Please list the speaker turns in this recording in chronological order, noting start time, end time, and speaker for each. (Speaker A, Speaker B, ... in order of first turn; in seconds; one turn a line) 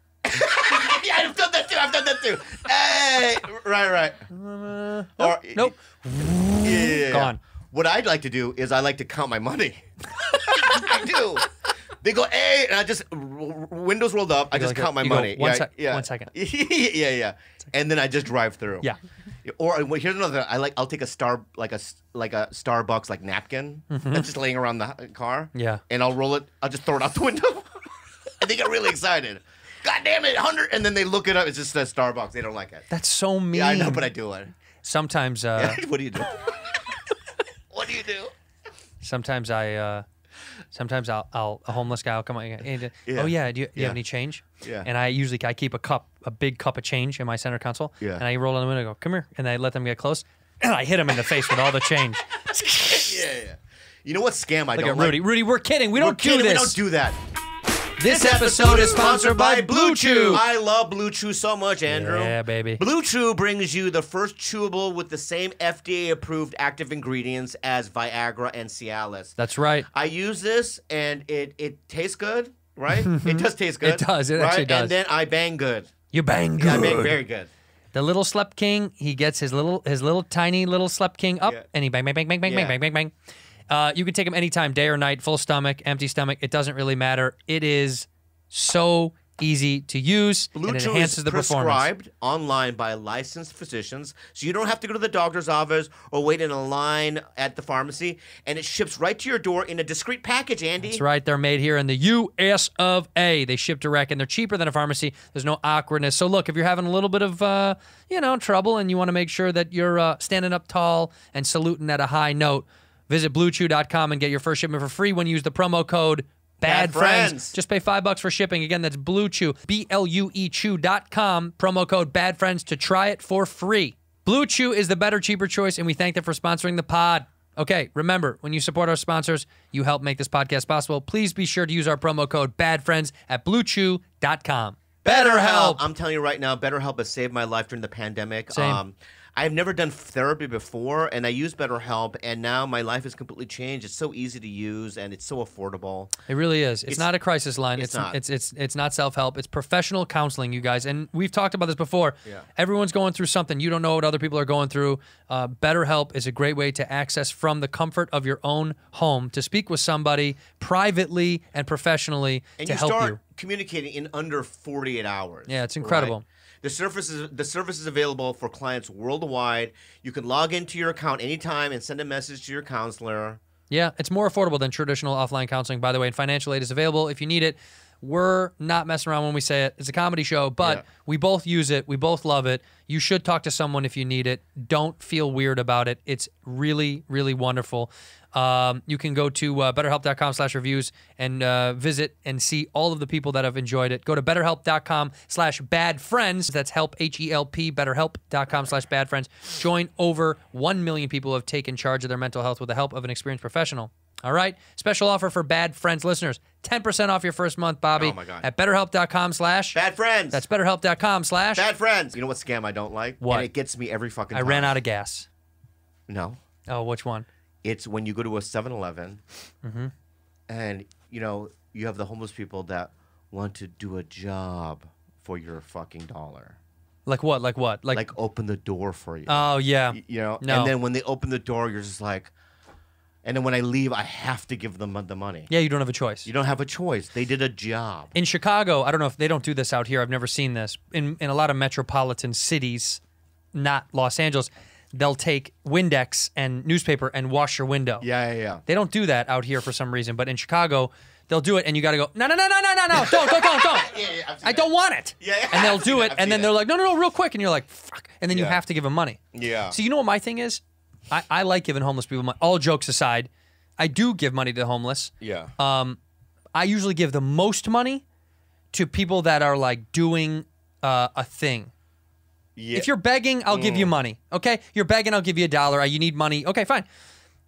Speaker A: 0.2-4.3
Speaker B: 4.3-7.4
Speaker A: 5.2-5.7
Speaker A: 6.6-18.9
Speaker B: 14.5-16.3
Speaker A: 19.4-32.9
Speaker B: 23.9-24.3
Speaker B: 25.5-25.8
Speaker B: 32.9-34.1
Speaker A: 33.5-34.5
Speaker B: 34.8-35.8
Speaker A: 35.5-37.0
Speaker A: 37.7-38.3
Speaker B: 39.0-40.0
Speaker B: 40.7-53.2
Speaker A: 43.0-44.0
Speaker A: 44.6-44.9
Speaker A: 48.0-48.2
Speaker A: 52.6-55.2
Speaker B: 54.8-56.8
Speaker A: 55.9-57.2
Speaker B: 58.0-60.4
Speaker A: 58.0-69.4
Speaker B: 61.9-62.8
Speaker B: 69.4-69.9
Speaker A: 69.9-75.9
Speaker B: 72.9-74.9
Speaker B: 76.1-77.2
Speaker A: 76.6-77.5
Speaker B: 77.9-83.1
Speaker A: 82.4-82.8
Speaker B: 83.7-91.9
Speaker A: 90.5-101.0
Speaker B: 100.8-135.8
Speaker A: 116.6-117.6
Speaker A: 135.0-146.1
Speaker B: 138.5-138.8
Speaker B: 146.3-163.2
Speaker A: 146.9-147.1
Speaker A: 147.7-148.2
Speaker A: 162.6-173.4
Speaker B: 165.5-166.2
Speaker B: 173.7-209.8
Speaker A: 180.6-180.8
Speaker A: 207.9-208.5
Speaker A: 209.7-210.4
Speaker B: 210.3-211.7
Speaker A: 211.5-214.8
Speaker B: 213.2-213.5
Speaker B: 214.3-215.3
Speaker A: 216.1-216.4
Speaker B: 216.7-217.3
Speaker A: 217.6-219.2
Speaker B: 219.6-219.9
Speaker A: 220.5-226.6
Speaker B: 227.1-228.1
Speaker A: 227.9-232.3
Speaker B: 229.2-230.7
Speaker A: 233.2-235.5
Speaker B: 235.5-236.3
Speaker A: 236.2-238.1
Speaker B: 238.1-243.0
Speaker B: 243.5-248.1
Speaker A: 248.0-248.6
Speaker B: 248.7-259.2
Speaker A: 252.9-256.5
Speaker A: 258.3-258.6
Speaker A: 259.3-259.8
Speaker B: 259.7-266.0
Speaker A: 265.2-265.5
Speaker B: 266.5-268.0
Speaker B: 268.7-271.7
Speaker A: 272.6-272.9
Speaker B: 272.7-276.9
Speaker A: 273.5-273.9